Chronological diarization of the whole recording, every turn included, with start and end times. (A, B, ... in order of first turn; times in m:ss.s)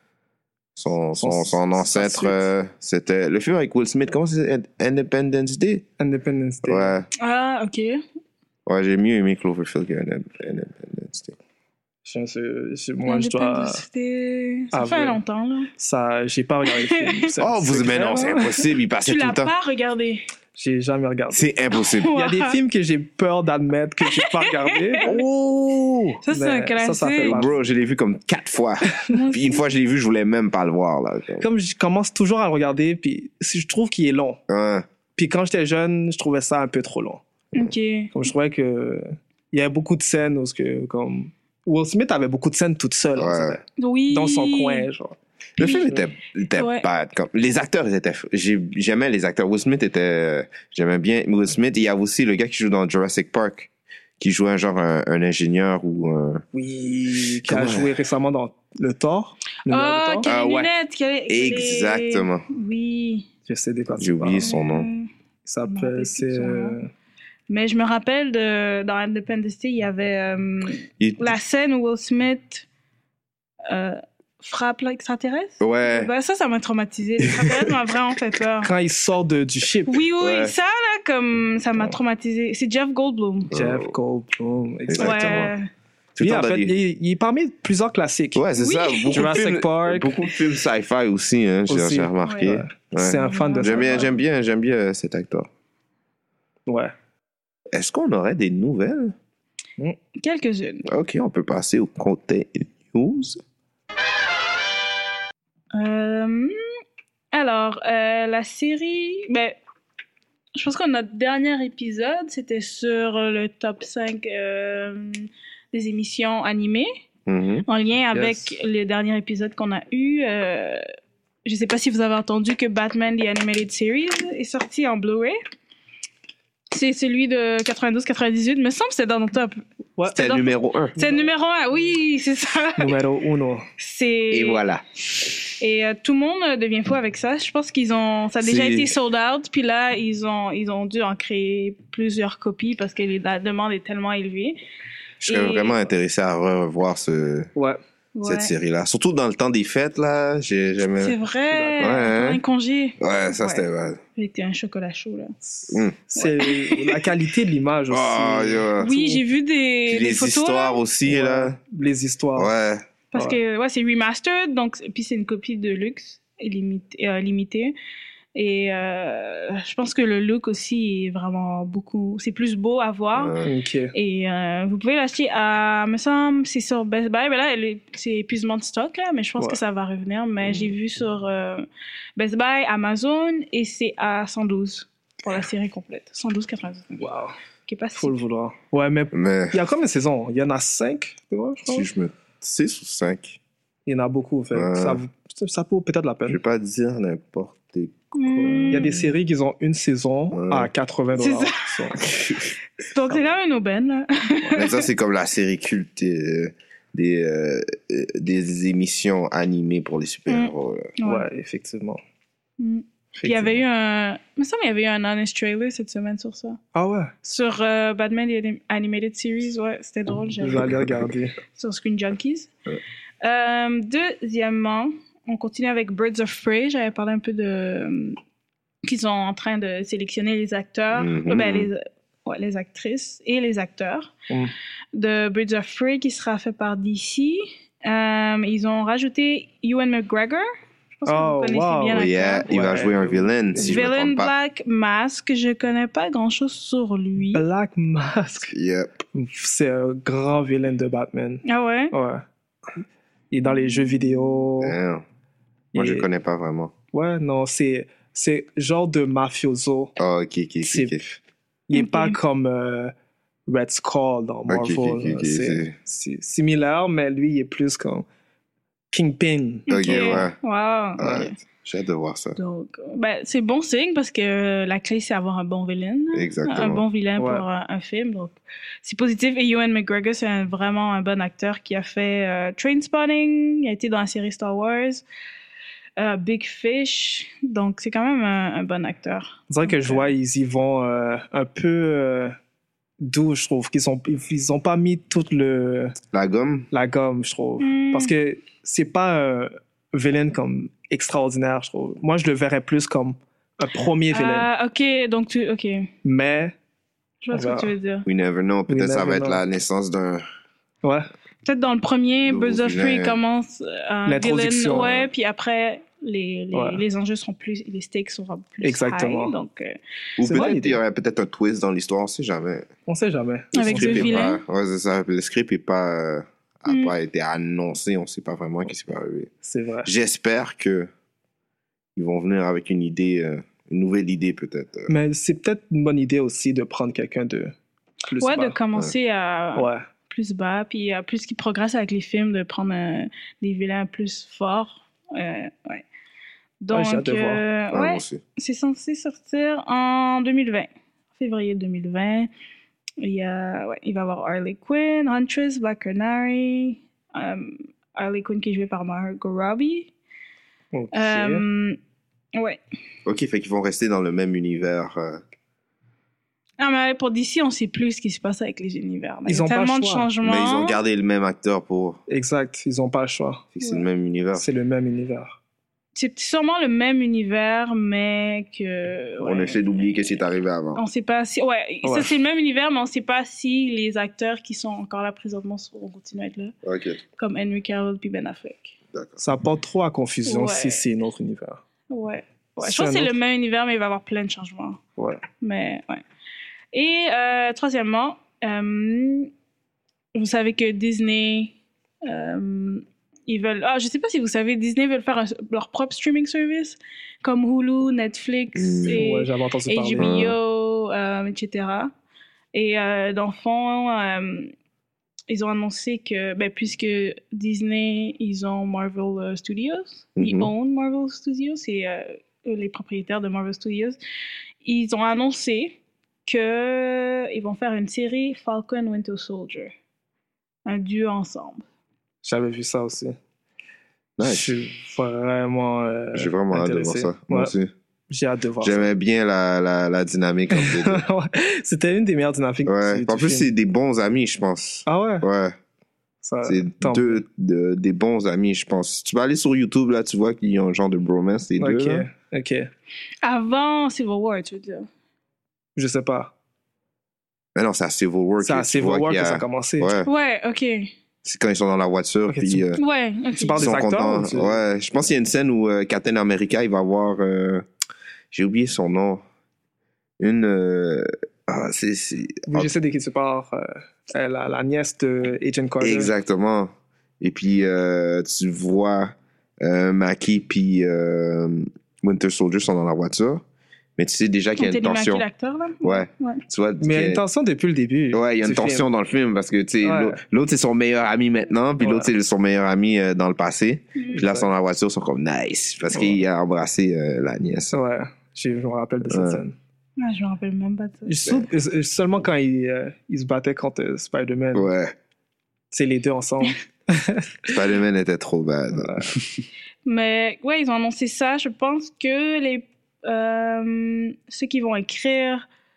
0:00.8-0:05.8 A
0:01.2-0:02.5 B
0:06.0-0:07.0 B
0:06.6-0:07.1 A
0:07.2-0:08.0 C
0:08.6-0:11.4 A
0:12.0-0:13.8 B
0:13.0-0:15.7 C
0:14.7-0:15.2 B
0:15.8-0:18.4 B
0:16.7-0:17.1 C
0:17.4-0:19.5 A
0:18.1-0:20.2 C
0:20.6-0:21.4 B
0:21.3-0:22.1 A
0:21.7-0:22.6 C
0:22.1-0:27.5 B
0:24.0-0:25.1 C
0:26.2-0:27.4 C
0:27.2-0:31.4 A
0:29.1-0:29.6 C
0:31.4-0:34.4 B
0:34.5-0:34.8 A
0:35.1-0:37.2 B
0:37.5-0:38.1 C
0:38.1-0:46.0 B
0:43.2-0:43.6 A
0:43.8-0:44.9 C
0:45.6-0:56.4 A
0:45.6-0:45.9 C
0:46.5-0:46.8 C
0:56.5-1:00.2 B
0:57.4-0:57.9 A
0:59.7-1:03.3 C
1:00.2-1:00.7 A
1:01.3-1:02.4 A
1:03.4-1:04.5 B
1:04.0-1:04.9 A
1:04.4-1:05.1 C
1:05.4-1:06.9 B
1:05.6-1:06.8 C
1:07.5-1:12.6 C
1:11.0-1:11.4 A
1:13.7-1:18.7 C
1:15.6-1:16.1 A
1:18.6-1:20.0 B
1:19.9-1:23.5 C
1:20.2-1:20.5 A
1:23.5-1:23.9 A
1:23.5-1:25.5 B
1:24.9-1:25.5 A
1:25.0-1:25.7 C
1:26.1-1:26.7 A
1:26.2-1:28.4 B
1:28.3-1:35.5 A
1:28.6-1:29.4 C
1:29.1-1:30.1 B
1:31.7-1:34.1 B
1:32.2-1:32.5 C
1:33.2-1:34.1 C
1:36.7-1:36.9 B
1:37.7-1:39.2 A
1:40.2-1:40.8 C
1:40.9-1:43.4 A
1:45.7-1:46.5 C
1:47.3-1:49.6 C
1:50.6-1:56.9 C
1:57.3-1:57.6 A
1:57.7-2:00.8 C
1:58.1-1:58.5 B
2:01.4-2:05.4 C
2:06.7-2:13.0 C
2:10.0-2:10.2 B
2:10.1-2:11.0 A
2:11.0-2:11.3 B
2:12.8-2:13.7 B
2:13.8-2:14.6 C
2:14.3-2:14.8 A
2:15.6-2:24.6 C
2:18.4-2:18.9 A
2:25.2-2:27.5 A
2:25.2-2:25.8 C
2:28.1-2:28.5 C
2:28.2-2:31.2 A
2:31.0-2:35.3 C
2:31.5-2:31.9 B
2:31.8-2:32.4 A
2:33.0-2:34.0 A
2:35.4-2:39.2 B
2:35.7-2:36.0 A
2:36.4-2:37.0 C
2:37.9-2:38.9 A
2:38.8-2:40.8 C
2:39.9-2:41.6 A
2:41.1-2:42.5 B
2:42.4-2:42.8 A
2:43.1-2:47.7 C
2:48.3-2:53.4 C
2:53.1-2:53.5 A
2:53.4-2:53.9 B
2:53.9-3:01.6 C
3:00.4-3:00.7 A
3:02.2-3:07.0 C
3:07.0-3:07.4 B
3:07.6-3:08.2 C
3:08.0-3:11.8 B
3:09.1-3:09.6 A
3:11.6-3:13.4 A
3:13.8-3:16.4 B
3:14.5-3:15.0 A
3:16.3-3:19.1 A
3:18.1-3:19.0 C
3:18.7-3:22.0 B
3:20.3-3:20.7 A
3:21.1-3:21.6 C
3:22.0-3:22.5 A
3:22.8-3:24.9 C
3:24.5-3:30.9 A
3:30.3-3:31.2 C
3:31.0-3:32.0 B
3:32.6-3:36.6 C
3:33.2-3:33.6 B
3:36.7-3:37.1 B
3:37.2-3:40.8 C
3:40.4-3:41.4 B
3:40.5-3:41.1 A
3:41.5-3:42.5 C
3:43.2-3:48.2 C
3:48.8-3:54.1 C
3:50.9-3:51.7 A
3:54.9-4:02.5 C
4:01.1-4:03.9 B
4:01.9-4:04.3 A
4:03.6-4:07.4 C
4:07.3-4:08.5 B
4:08.5-4:08.9 A
4:09.1-4:12.2 B
4:11.4-4:11.9 C
4:12.8-4:14.8 B
4:13.8-4:14.2 C
4:14.6-4:15.0 A
4:15.7-4:16.1 B
4:15.7-4:16.7 A
4:16.9-4:19.9 B
4:20.0-4:21.0 A
4:20.6-4:22.9 B
4:21.7-4:22.2 C
4:23.5-4:28.0 B
4:24.5-4:25.7 A
4:28.9-4:30.2 B
4:29.7-4:31.3 C
4:29.7-4:30.4 A
4:31.0-4:32.4 A
4:32.3-4:45.0 C
4:36.1-4:36.8 A
4:37.2-4:37.4 B
4:46.0-4:50.1 C
4:49.5-4:52.4 B
4:53.0-4:56.0 B
4:56.1-4:56.7 A
4:56.7-5:04.5 B
4:57.6-4:58.1 C
5:04.1-5:05.9 C
5:06.0-5:06.5 B
5:07.2-5:08.1 C
5:07.3-5:07.7 B
5:08.0-5:10.2 A
5:08.7-5:09.4 B
5:10.8-5:11.1 B
5:11.4-5:19.7 C
5:12.2-5:13.2 A
5:14.1-5:15.0 B
5:14.8-5:15.0 A
5:16.5-5:16.8 B
5:18.6-5:19.3 B
5:20.2-5:22.7 A
5:20.2-5:20.8 B
5:22.9-5:24.3 B
5:23.5-5:24.4 C
5:23.6-5:29.3 A
5:26.7-5:26.9 C
5:29.4-5:29.9 B
5:29.8-5:30.9 A
5:32.0-5:34.9 A
5:34.9-5:38.5 B
5:38.2-5:45.8 C
5:39.6-5:39.9 B
5:46.6-5:52.3 C
5:46.7-5:47.4 B
5:47.7-5:48.2 A
5:53.0-5:59.9 C
6:00.7-6:01.4 B
6:00.9-6:01.8 C
6:02.3-6:02.6 C
6:03.0-6:05.2 A
6:06.6-6:10.8 C
6:09.3-6:10.1 B
6:10.2-6:12.0 A
6:12.1-6:13.5 B
6:13.6-6:14.5 A
6:14.3-6:15.4 B
6:15.9-6:20.2 C
6:19.2-6:20.8 A
6:20.7-6:26.5 C
6:21.8-6:22.1 B
6:26.6-6:27.0 A
6:27.2-6:28.7 C
6:28.9-6:29.2 A
6:29.2-6:31.6 B
6:30.2-6:30.8 C
6:31.9-6:34.8 C
6:32.6-6:33.1 B
6:35.0-6:35.2 B
6:35.4-6:36.0 C
6:36.7-6:39.3 C
6:40.1-6:41.5 C
6:42.0-6:51.9 C
6:48.5-6:49.0 A
6:48.9-6:50.1 B
6:50.0-6:50.3 A
6:52.5-6:54.5 C
6:55.3-7:04.0 C
7:00.2-7:00.5 A
7:04.6-7:09.7 C
7:10.6-7:11.6 C
7:12.2-7:13.2 B
7:14.2-7:14.5 A
7:14.2-7:17.5 B
7:16.1-7:17.7 A
7:18.1-7:18.9 B
7:18.6-7:21.0 A
7:20.5-7:23.5 B
7:22.6-7:25.6 A
7:24.8-7:25.2 B
7:26.2-7:27.2 B
7:26.4-7:32.1 A
7:31.6-7:32.7 B
7:33.2-7:34.9 C
7:35.8-7:36.3 B
7:37.5-7:40.1 A
7:38.4-7:39.9 B
7:40.0-7:40.9 C
7:41.2-7:42.8 A
7:42.3-7:42.7 B
7:42.8-7:43.7 C
7:43.3-7:44.6 B
7:43.6-7:47.6 A
7:48.3-7:49.2 A
7:50.2-7:52.7 A
7:52.5-7:56.1 B
7:55.8-8:03.4 A
8:04.0-8:05.2 A
8:04.6-8:06.4 C
8:05.8-8:07.2 A
8:06.8-8:08.9 B
8:08.1-8:17.8 A
8:09.8-8:10.2 B
8:11.8-8:12.1 B
8:14.0-8:14.3 C
8:14.1-8:14.5 B
8:15.9-8:16.2 B
8:17.7-8:19.6 B
8:19.1-8:19.4 A
8:20.0-8:21.2 C
8:21.0-8:24.7 B
8:24.5-8:24.9 A
8:25.7-8:27.5 B
8:27.5-8:29.4 A
8:28.7-8:29.1 B
8:29.8-8:35.4 C